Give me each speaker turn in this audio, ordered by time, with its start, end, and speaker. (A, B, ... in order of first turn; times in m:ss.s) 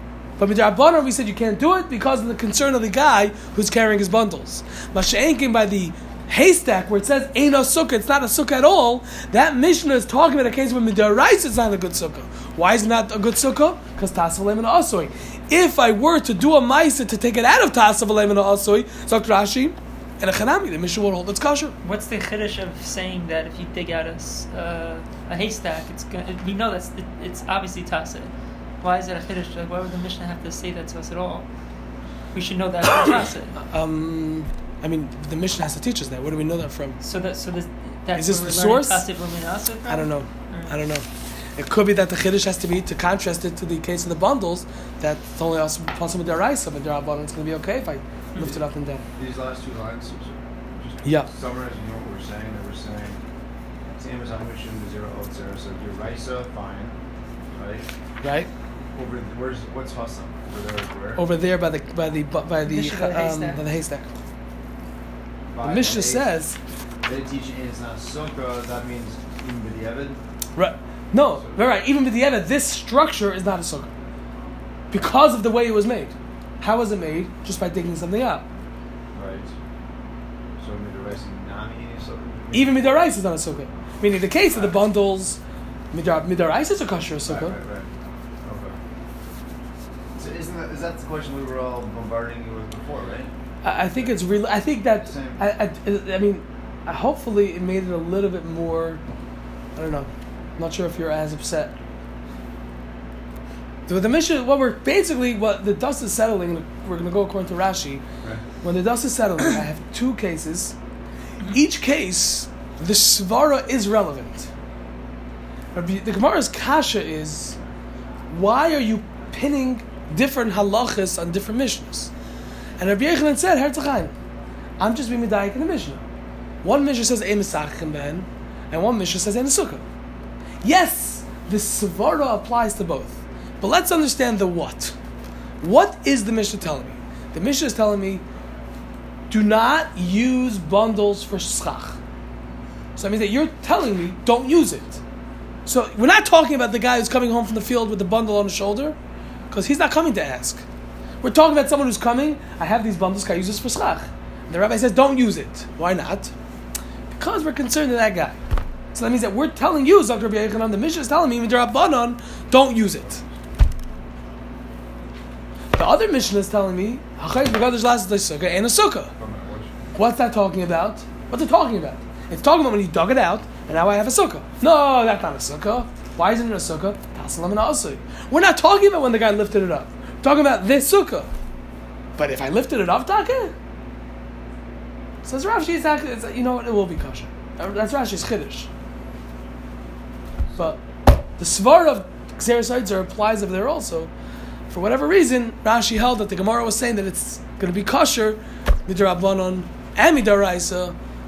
0:00.4-0:21.7 A
0:21.8-0:33.6 B
0:33.6-0:37.0 A
0:37.0-0:40.7 B
0:38.1-0:39.1 A
0:39.9-0:49.0 A
0:49.2-0:53.2 C
0:51.0-0:51.3 A
0:54.0-0:57.0 C
0:57.5-0:57.9 C
0:58.2-0:58.5 A
0:58.9-1:01.2 C
1:01.2-1:04.1 A
1:02.6-1:03.6 B
1:05.5-1:06.4 C
1:05.6-1:06.6 A
1:07.0-1:10.2 C
1:10.6-1:13.9 A
1:11.3-1:11.6 C
1:14.9-1:18.5 A
1:19.1-1:19.5 C
1:20.6-1:23.1 C
1:22.5-1:25.4 A
1:24.5-1:24.8 C
1:25.9-1:27.6 A
1:27.2-1:27.9 C
1:28.4-1:28.8 C
1:30.1-1:33.3 C
1:33.6-1:39.0 A
1:34.9-1:35.4 C
1:39.7-1:41.7 A
1:43.9-1:48.0 A
1:48.6-1:50.8 A
1:51.5-1:54.5 A
1:55.7-1:57.6 A
1:58.3-2:02.1 A
2:02.8-2:04.1 A
2:04.8-2:06.0 A
2:06.6-2:09.8 A
2:10.6-2:14.9 A
2:15.6-2:18.2 A
2:19.3-2:22.0 A
2:23.0-2:25.0 A
2:25.6-2:29.0 A
2:29.5-2:30.6 A
2:31.2-2:36.3 A
2:37.1-2:38.4 A
2:38.9-2:43.2 A
2:45.7-2:49.1 A
2:49.2-2:49.9 C
2:49.9-3:01.3 A
3:02.2-3:03.5 A
3:05.2-3:08.7 A
3:10.5-3:10.8 A
3:11.4-3:14.1 A
3:14.7-3:21.0 A